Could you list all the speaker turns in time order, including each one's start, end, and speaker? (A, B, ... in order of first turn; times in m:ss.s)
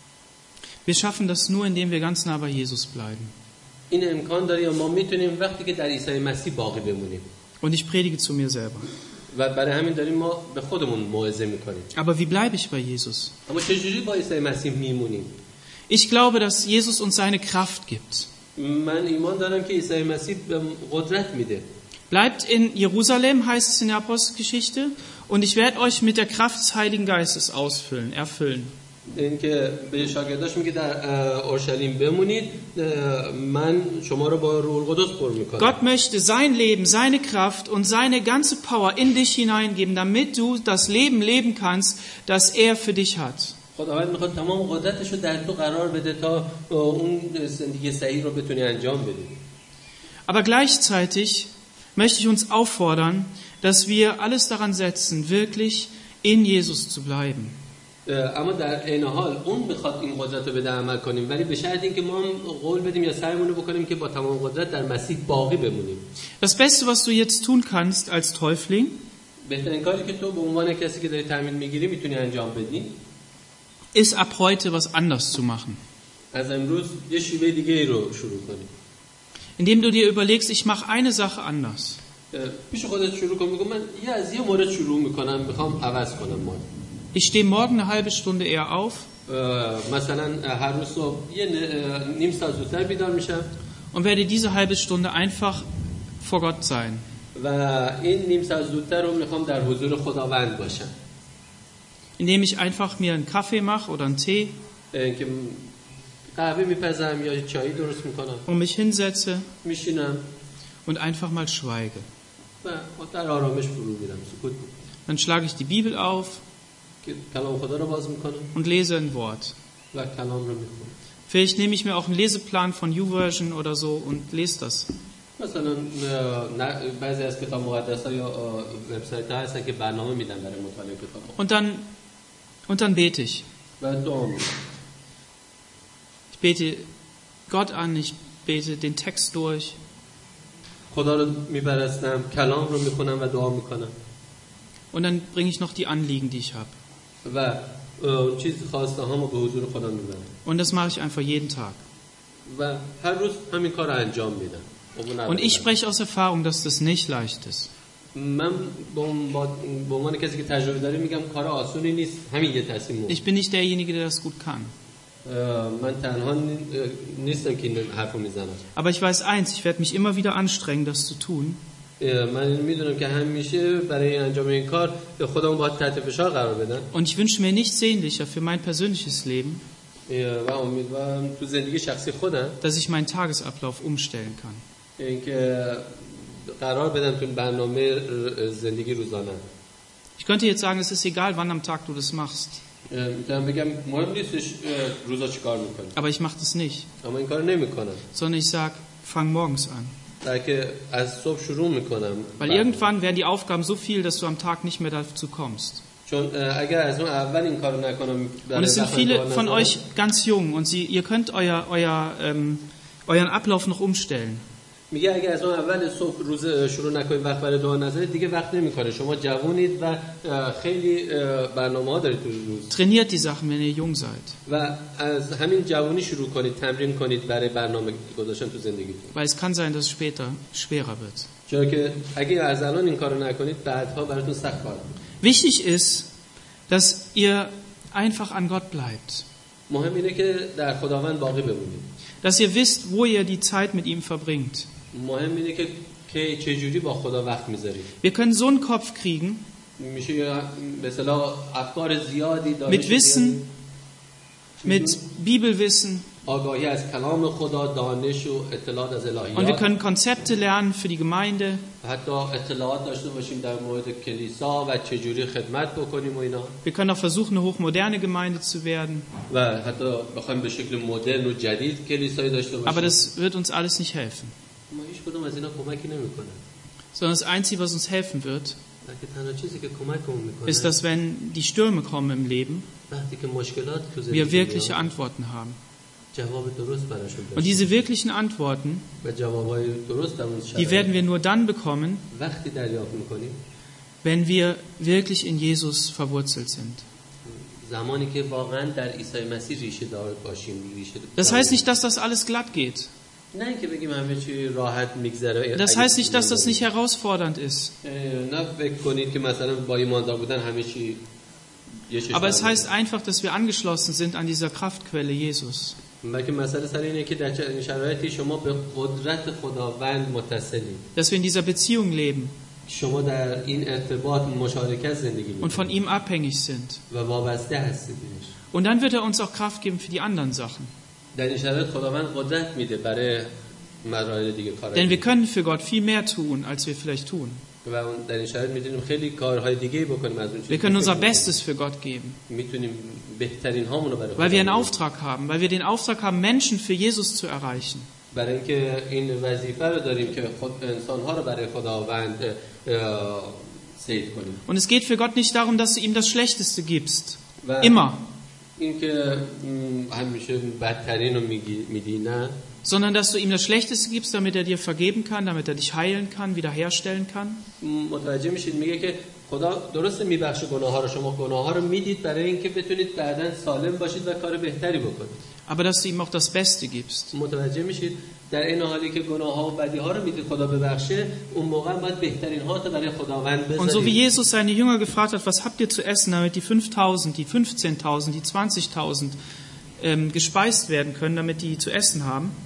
0:00.8-0:03.3 A
0:03.9-0:07.2 B
0:07.6-0:08.9 A
0:09.3-0:11.9 B
0:11.9-0:13.3 A
0:13.5-0:15.3 B
0:15.9-0:18.3 A
0:18.6-0:21.6 B
0:22.1-0:28.7 A
0:29.1-0:35.8 B
0:35.6-0:43.6 A
0:43.8-0:49.4 B
0:50.3-0:57.6 A
0:58.0-1:06.0 B
1:06.4-1:09.0 A
1:09.4-1:13.0 B
1:13.9-1:15.8 A
1:16.3-1:18.7 B
1:19.6-1:22.0 A
1:22.3-1:26.6 B
1:27.1-1:29.1 A
1:29.3-1:33.5 B
1:33.9-1:35.6 A
1:36.2-1:37.0 A
1:37.3-1:40.9 B
1:42.2-1:44.6 A
1:44.9-1:45.7 B
1:46.3-1:48.4 B
1:48.5-1:49.5 A
1:49.6-1:50.2 B
1:50.8-1:52.1 A
1:52.6-1:54.7 B
1:55.1-1:56.4 A
1:57.0-1:58.5 B
1:58.5-1:59.5 A
1:59.9-2:00.9 B
2:01.3-2:04.9 A
2:05.4-2:11.4 B
2:11.4-2:11.8 A
2:12.7-2:13.4 A
2:13.8-2:14.5 B
2:16.3-2:16.9 A
2:17.5-2:19.8 A
2:20.9-2:23.9 B
2:24.9-2:26.7 A
2:27.2-2:30.3 B
2:30.4-2:31.8 A
2:32.4-2:35.7 B
2:35.3-2:37.7 A
2:38.1-2:43.2 B
2:43.1-2:44.7 A
2:45.2-2:48.6 B
2:48.7-2:51.6 A
2:52.0-2:56.9 B
2:56.9-2:59.6 A
3:00.1-3:02.6 B
3:02.6-3:04.6 A
3:05.0-3:09.4 B
3:10.2-3:12.6 A
3:12.9-3:15.9 B
3:15.9-3:16.9 A
3:17.0-3:18.0 B
3:18.1-3:19.9 A
3:20.2-3:22.8 B
3:22.4-3:25.8 A
3:26.0-3:29.8 B
3:28.5-3:34.4 A
3:34.9-3:42.7 B
3:42.7-3:44.4 A
3:44.4-3:49.1 B
3:49.1-3:51.3 A
3:51.5-3:54.9 B
3:55.2-3:56.1 A
3:56.7-3:59.2 A
3:59.7-4:01.8 B
4:02.2-4:04.7 A
4:04.9-4:07.9 B
4:08.0-4:09.4 A
4:09.8-4:13.4 B
4:12.7-4:13.4 A
4:14.6-4:16.0 A
4:14.6-4:15.0 B
4:16.2-4:19.6 B
4:19.4-4:21.6 A
4:21.8-4:26.6 B
4:26.6-4:29.1 A
4:29.3-4:33.0 B
4:32.6-4:34.3 A
4:34.7-4:36.4 B
4:36.9-4:38.6 A
4:38.8-4:40.8 B
4:40.5-4:42.7 A
4:42.9-4:44.8 B
4:44.1-4:45.6 A
4:46.1-4:47.7 B
4:47.4-4:48.9 A
4:49.0-4:50.9 B
4:50.6-4:52.0 A
4:52.1-4:53.4 B
4:54.0-4:56.8 A
4:57.2-5:01.7 B
5:01.2-5:02.9 A
5:03.3-5:06.6 B
5:05.5-5:07.7 A
5:07.8-5:11.0 B
5:11.9-5:12.6 B
5:12.1-5:15.8 A
5:16.0-5:20.8 B
5:21.0-5:22.3 A
5:22.7-5:25.7 B
5:25.4-5:26.8 A
5:26.9-5:28.3 B
5:28.5-5:30.7 A
5:31.1-5:33.3 B
5:33.8-5:35.0 B
5:34.7-5:37.4 A
5:37.6-5:41.3 B
5:40.5-5:42.2 A
5:42.3-5:44.7 B
5:44.2-5:47.9 A
5:48.1-5:54.4 B
5:54.4-5:58.0 A
5:57.4-5:57.9 B
5:58.6-6:02.4 B
6:02.6-6:07.4 A
6:07.6-6:15.2 B
6:15.5-6:17.1 A
6:17.1-6:24.0 B
6:23.6-6:29.2 A
6:29.8-6:32.3 A